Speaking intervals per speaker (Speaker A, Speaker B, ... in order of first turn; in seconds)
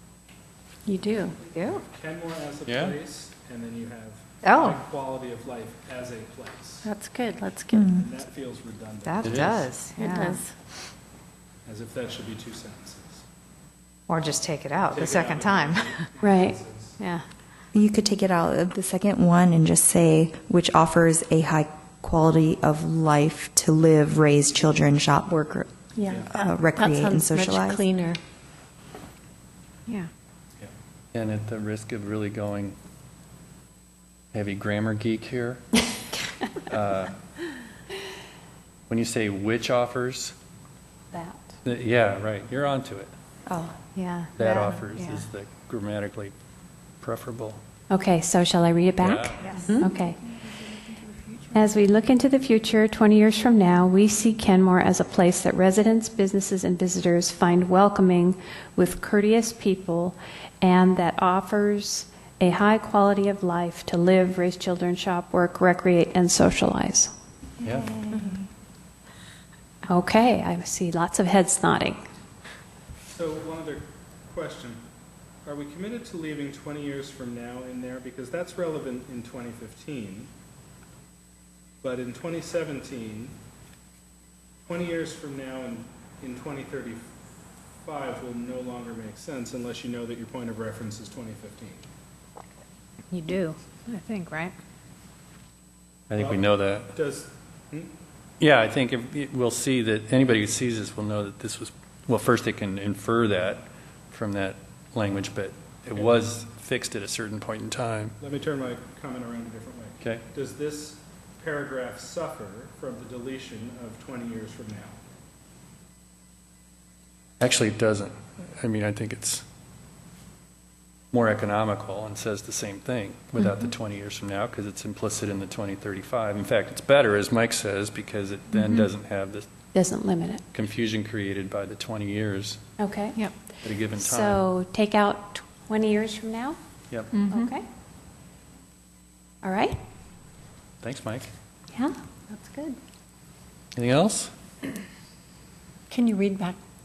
Speaker A: 0.9-1.4, 6.8-7.9, 9.9-10.5, 26.0-28.2, 49.6-49.9, 142.3-142.8, 145.9-146.6
Speaker B: 1.5-1.8, 4.4-4.8, 9.0-10.4, 14.1-16.0, 17.0-17.2, 43.9-45.2, 93.1-94.5, 137.1-137.5
Speaker C: 1.7-6.8, 8.0-9.7, 11.6-13.2, 14.9-16.9, 73.1-74.8, 75.4-80.3, 81.8-83.3, 84.7-87.1, 87.8-91.8, 97.0-97.9, 108.2-115.0
Speaker D: 2.6-3.0, 9.2-9.7, 31.1-32.8, 34.3-35.8, 36.7-37.1, 38.9-40.3, 41.6-43.1, 44.4-46.3, 47.0-47.6, 49.0-49.6, 67.6-68.0, 96.1-96.9, 98.4-108.2, 117.4-119.4, 121.1-129.4, 130.5-132.6, 133.6-134.4, 140.8-141.3, 143.7-144.3
Speaker E: 7.7-8.0, 17.7-25.7, 26.2-27.8, 43.5-43.7
Speaker F: 16.2-16.6, 41.1-41.4, 47.9-50.2, 51.5-67.1, 69.9-72.0, 129.7-130.4, 132.8-133.2, 133.9-136.6, 137.3-137.6, 139.4-139.8